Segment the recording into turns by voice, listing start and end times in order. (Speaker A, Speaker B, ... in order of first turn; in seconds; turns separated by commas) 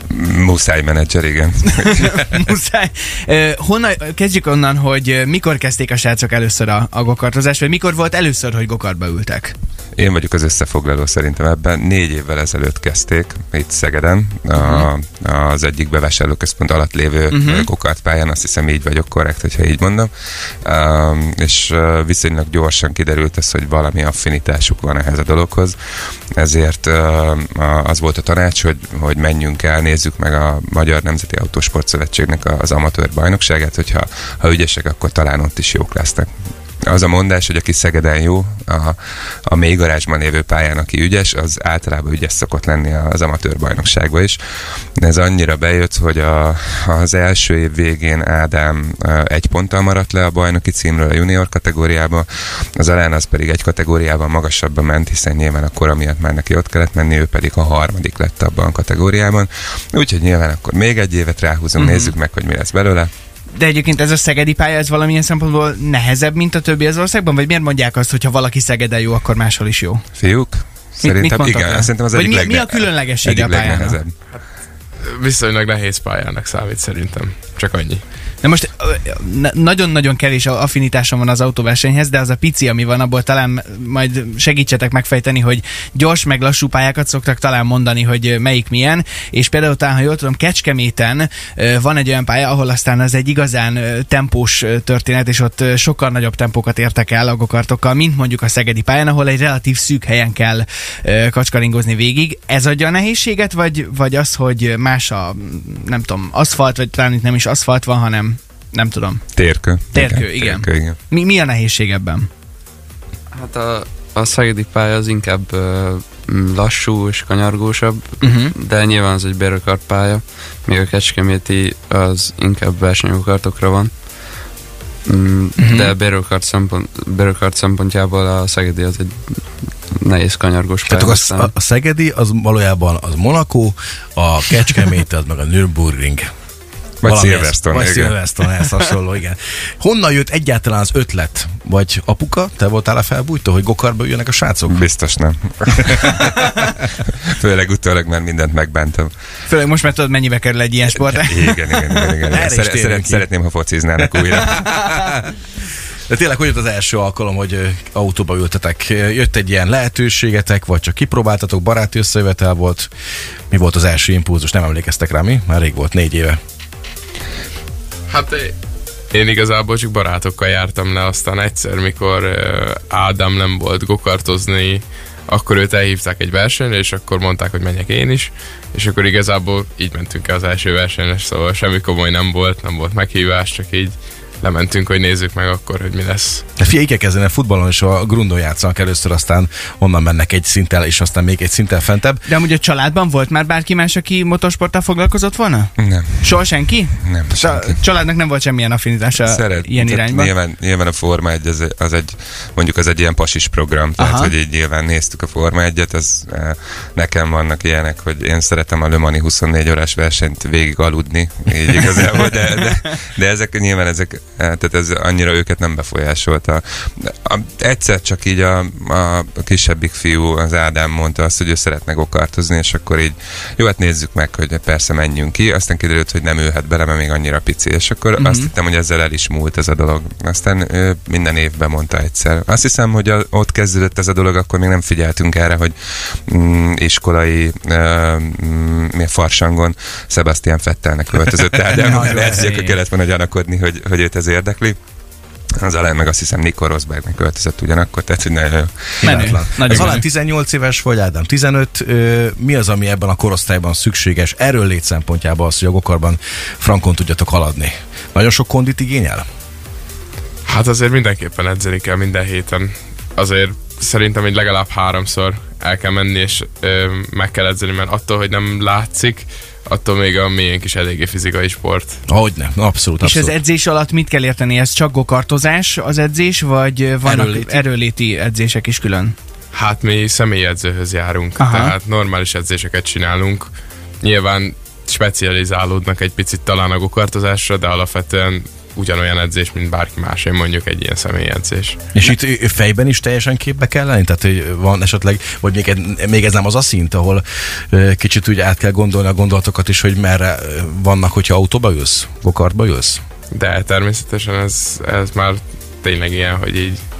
Speaker A: 0.1-2.3, Speaker B: 1.8-9.5, Speaker A: 10.0-20.1, Speaker B: 14.5-14.9, Speaker B: 17.3-17.7, Speaker A: 20.6-25.7, Speaker A: 26.4-36.3, Speaker A: 36.8-44.4, Speaker A: 45.0-52.2, Speaker A: 52.8-63.1, Speaker B: 61.7-62.1, Speaker B: 63.5-70.0, Speaker A: 70.2-74.1, Speaker B: 71.0-74.0, Speaker C: 75.2-78.0, Speaker B: 78.4-112.3, Speaker A: 109.3-111.0, Speaker D: 113.3-123.9, Speaker B: 118.2-118.5, Speaker D: 125.1-131.5, Speaker B: 125.6-125.9, Speaker E: 130.9-136.2, Speaker A: 137.0-138.2, Speaker E: 137.0-144.8, Speaker A: 144.7-146.6, Speaker E: 145.9-146.7, Speaker A: 147.1-149.1, Speaker B: 149.4-152.1, Speaker A: 150.9-154.7, Speaker E: 152.3-153.3, Speaker E: 154.0-155.2, Speaker E: 156.1-162.9, Speaker E: 163.5-166.4, Speaker C: 168.1-168.5, Speaker C: 169.1-186.4, Speaker E: 186.6-192.2, Speaker B: 192.2-200.3, Speaker A: 195.8-196.4, Speaker A: 197.0-197.8, Speaker A: 199.2-235.7, Speaker B: 204.0-204.3, Speaker B: 228.2-228.5, Speaker A: 236.3-244.8, Speaker B: 241.7-242.8, Speaker A: 245.6-250.0, Speaker E: 249.0-259.2, Speaker B: 249.0-250.0, Speaker C: 260.5-271.9, Speaker E: 272.1-273.3, Speaker B: 273.0-279.1, Speaker E: 277.0-277.6, Speaker C: 279.5-283.5, Speaker B: 281.4-281.7, Speaker C: 284.0-291.8, Speaker E: 291.9-303.0, Speaker C: 303.3-306.8